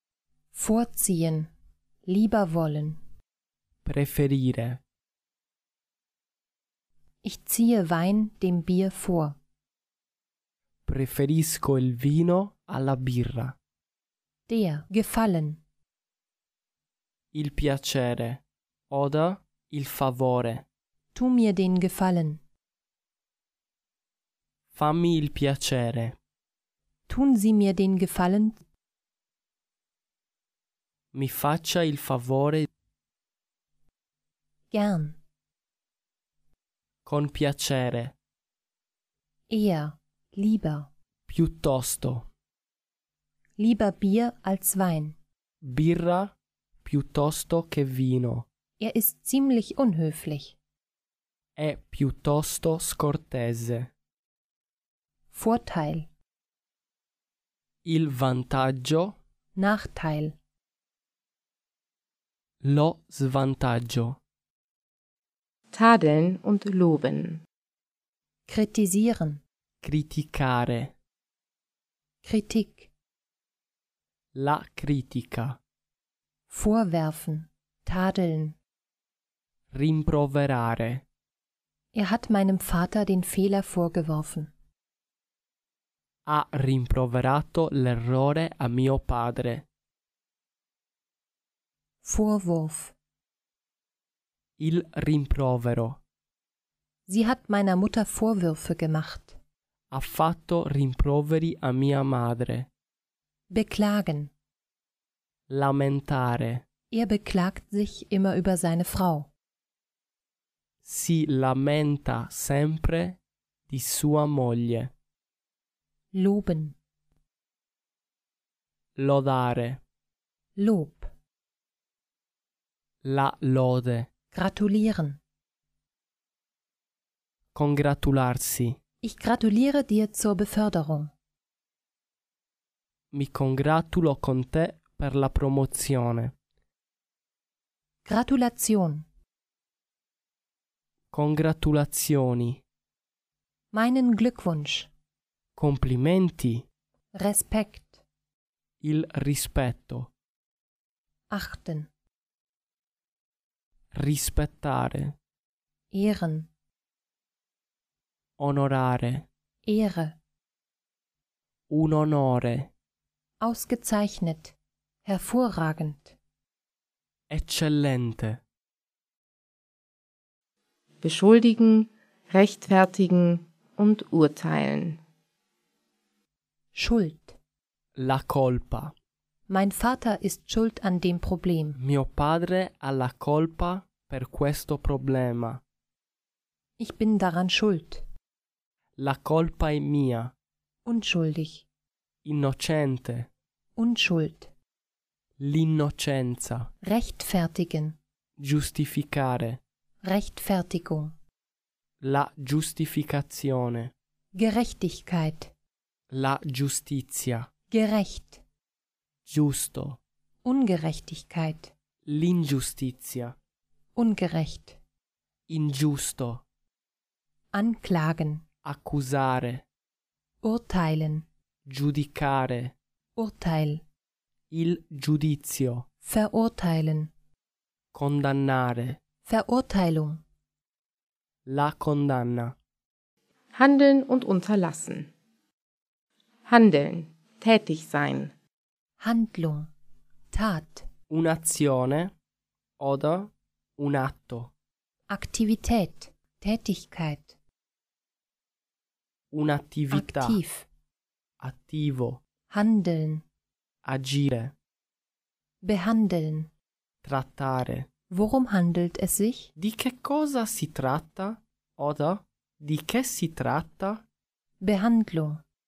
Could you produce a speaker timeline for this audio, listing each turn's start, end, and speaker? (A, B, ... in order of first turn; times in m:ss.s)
0:00.5-0:01.5 A
0:02.0-0:03.0 A
0:03.8-0:04.8 B
0:07.2-0:09.4 A
0:10.8-0:13.6 B
0:14.5-0:15.6 A
0:17.3-0:20.6 B
0:21.1-0:22.4 A
0:24.7-0:26.2 B
0:27.1-0:28.6 A
0:31.1-0:32.7 B
0:34.7-0:35.2 A
0:37.0-0:38.1 B
0:39.5-0:40.9 A
0:41.3-0:42.3 B
0:43.6-0:45.2 A
0:45.6-0:48.4 B
0:48.8-0:50.6 A
0:51.6-0:53.9 B
0:55.3-0:56.1 A
0:57.8-0:59.2 B
0:59.6-1:00.4 A
1:02.6-1:04.2 B
1:05.7-1:07.4 C
1:08.5-1:09.4 A
1:09.8-1:10.9 B
1:12.2-1:12.9 A
1:14.3-1:15.6 B
1:16.5-1:18.6 A
1:19.7-1:21.0 B
1:21.9-1:24.5 A
1:26.2-1:29.6 B
1:32.0-1:32.9 A
1:34.6-1:36.0 B
1:37.1-1:39.4 A
1:39.9-1:42.7 B
1:43.5-1:44.3 A
1:45.5-1:46.6 B
1:46.9-1:49.3 A
1:50.8-1:54.9 B
1:56.1-1:56.8 A
1:59.0-1:59.8 B
2:00.6-2:01.1 A
2:03.0-2:04.1 B
2:04.3-2:05.2 A
2:07.5-2:08.8 B
2:09.0-2:11.1 A
2:13.1-2:16.3 B
2:18.0-2:19.1 A
2:21.1-2:22.6 B
2:23.7-2:24.9 A
2:25.6-2:26.6 B
2:27.1-2:28.0 A
2:28.8-2:30.1 B
2:31.3-2:31.9 A
2:33.9-2:35.1 B
2:35.9-2:36.5 A
2:38.4-2:39.2 B
2:39.6-2:40.2 A
2:41.7-2:42.7 B
2:43.4-2:46.2 A
2:47.3-2:48.4 B
2:51.0-2:55.0 C
2:56.7-2:57.4 A
2:58.0-2:58.9 B
2:59.5-3:01.8 A
3:01.8-3:05.6 B
3:06.8-3:08.0 A
3:09.0-3:10.3 B
3:10.8-3:11.6 A
3:12.2-3:13.3 B
3:13.8-3:14.5 A
3:15.4-3:16.7 B
3:16.8-3:18.0 A
3:18.4-3:19.6 B
3:20.0-3:21.1 A
3:22.0-3:23.9 B
3:24.3-3:25.5 A
3:26.1-3:27.5 B
3:27.7-3:28.4 A
3:29.2-3:30.0 B
3:30.4-3:31.7 A
3:32.0-3:33.3 B
3:34.0-3:34.8 A
3:35.5-3:36.4 B
3:37.5-3:38.4 A
3:38.6-3:39.6 B
3:40.4-3:41.2 A
3:41.6-3:42.7 B
3:43.2-3:43.8 A
3:44.5-3:45.8 B
3:46.0-3:47.1 A
3:47.9-3:49.0 B
3:49.2-3:50.2 A
3:51.4-3:52.5 B
3:53.5-3:55.1 C
3:56.4-3:58.3 C
3:59.0-3:59.7 A
4:00.3-4:00.9 A
4:01.1-4:02.1 B
4:02.8-4:04.5 B
4:05.1-4:07.4 A
4:09.3-4:10.4 B
4:09.9-4:10.7 A
4:11.4-4:12.2 B
4:12.5-4:13.2 A
4:13.8-4:14.5 B
4:15.6-4:16.5 A
4:17.0-4:17.9 B
4:18.1-4:19.5 A
4:19.6-4:24.0 B
4:24.6-4:25.4 A